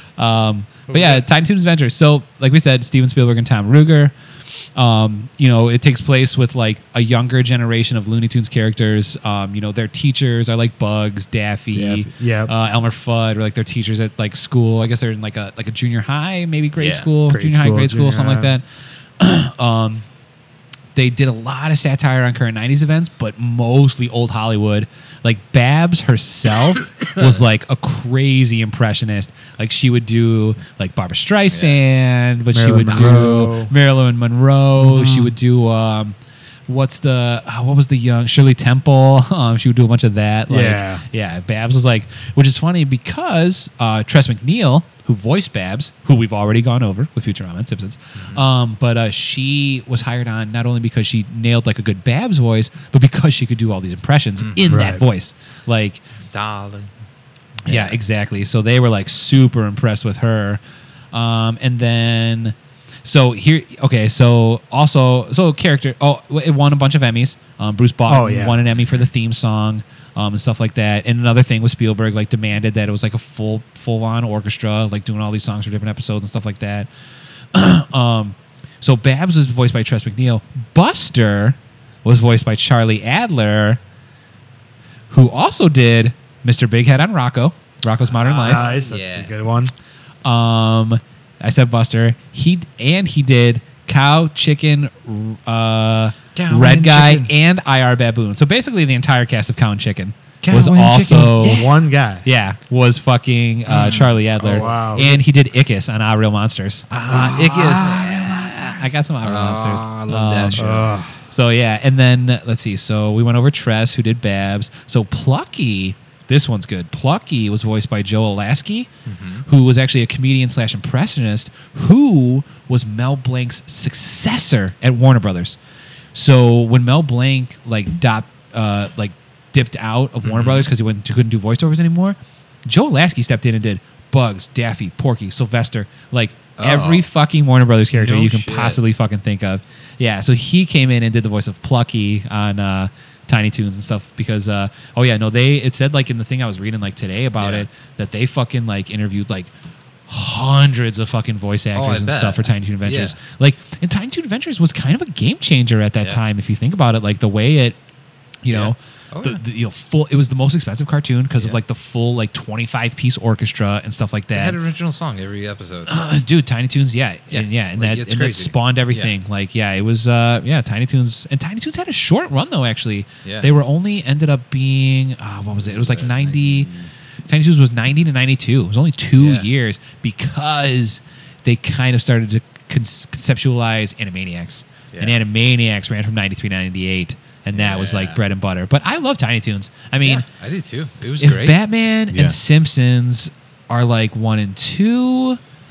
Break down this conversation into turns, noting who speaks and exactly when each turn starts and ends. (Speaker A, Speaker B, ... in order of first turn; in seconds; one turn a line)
Speaker A: 0.2-18.6
Speaker B: 0.9-1.2
Speaker C: 11.7-12.5
Speaker B: 16.8-17.1
Speaker C: 17.3-18.5
Speaker A: 19.2-20.1
Speaker A: 20.9-36.2
Speaker B: 27.1-27.4
Speaker B: 31.5-31.8
Speaker C: 32.5-33.7
Speaker B: 32.9-33.2
Speaker C: 34.8-35.3
Speaker A: 36.7-56.0
Speaker C: 40.5-41.0
Speaker B: 48.2-48.4
Speaker B: 54.4-54.8
Speaker C: 54.7-55.0
Speaker B: 56.3-56.9
Speaker B: 57.7-58.0
Speaker A: 57.7-60.6
Speaker A: 61.1-76.9
Speaker C: 68.1-68.6
Speaker A: 77.5-83.8
Speaker A: 85.1-88.7
Speaker C: 88.1-89.7
Speaker B: 88.4-89.3
Speaker A: 90.2-101.7
Speaker B: 96.3-97.3
Speaker B: 100.4-101.8
Speaker C: 101.3-102.2
Speaker A: 102.2-110.7
Speaker B: 103.7-105.1
Speaker C: 104.4-105.2
Speaker B: 106.9-111.0
Speaker C: 107.1-108.1
Speaker C: 110.6-111.1
Speaker A: 111.3-118.9
Speaker B: 119.0-119.5
Speaker A: 119.5-125.6
Speaker A: 126.1-149.5
Speaker B: 130.2-130.7
Speaker B: 136.6-137.1
Speaker B: 137.9-138.8
Speaker B: 147.4-147.7
Speaker A: 150.1-157.8
Speaker B: 151.7-153.2
Speaker A: 158.4-164.6
Speaker B: 158.5-159.4
Speaker B: 164.3-165.9
Speaker A: 165.9-176.7
Speaker B: 167.3-169.1
Speaker B: 173.2-173.5
Speaker B: 175.6-176.9
Speaker A: 177.3-190.3
Speaker B: 179.2-179.5
Speaker B: 187.5-188.2
Speaker B: 190.0-191.6
Speaker A: 191.2-195.4
Speaker B: 192.1-192.4